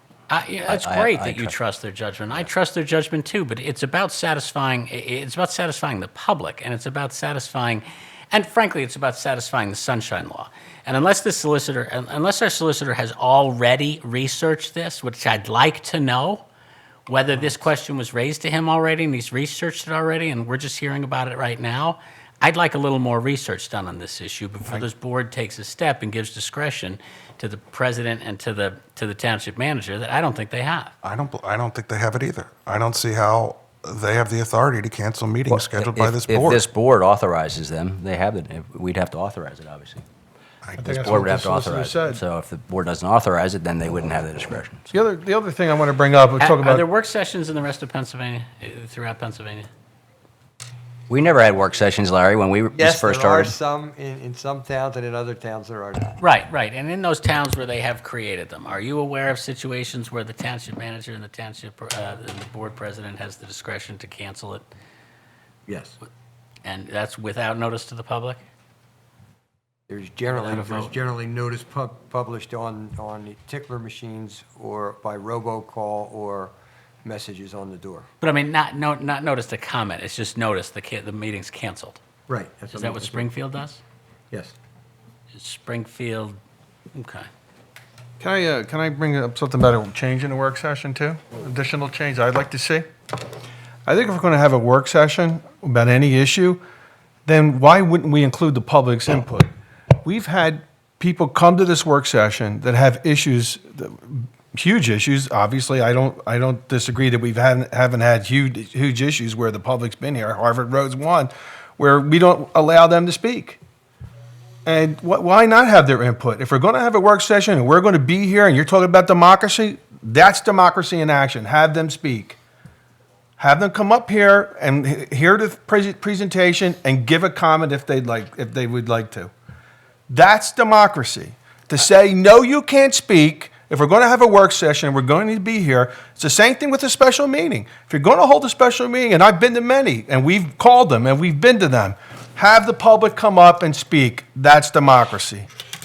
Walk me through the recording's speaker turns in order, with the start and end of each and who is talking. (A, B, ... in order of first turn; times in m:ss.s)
0:00.3-0:16.4 A
0:00.7-0:01.5 B
0:17.1-0:30.9 A
0:31.0-0:36.6 C
0:35.5-0:40.0 B
0:40.6-0:40.9 C
0:40.8-0:42.2 D
0:40.8-0:44.9 B
0:44.9-0:46.8 D
0:46.4-0:49.7 A
0:51.1-0:53.6 B
0:52.8-0:56.2 E
0:56.2-1:04.6 A
1:05.7-1:06.0 E
1:06.6-1:08.4 A
1:09.9-1:16.5 E
1:10.3-1:10.9 A
1:17.0-1:18.1 E
1:18.2-1:22.0 A
1:22.3-1:23.3 E
1:22.7-1:23.8 A
1:24.3-1:24.6 E
1:25.3-1:26.4 A
1:26.9-1:27.3 A
1:28.2-1:32.8 D
1:33.8-1:36.6 D
1:37.2-1:39.5 D
1:40.0-1:53.6 D
1:54.6-2:02.4 D
2:03.4-2:09.3 D
2:10.1-2:25.5 D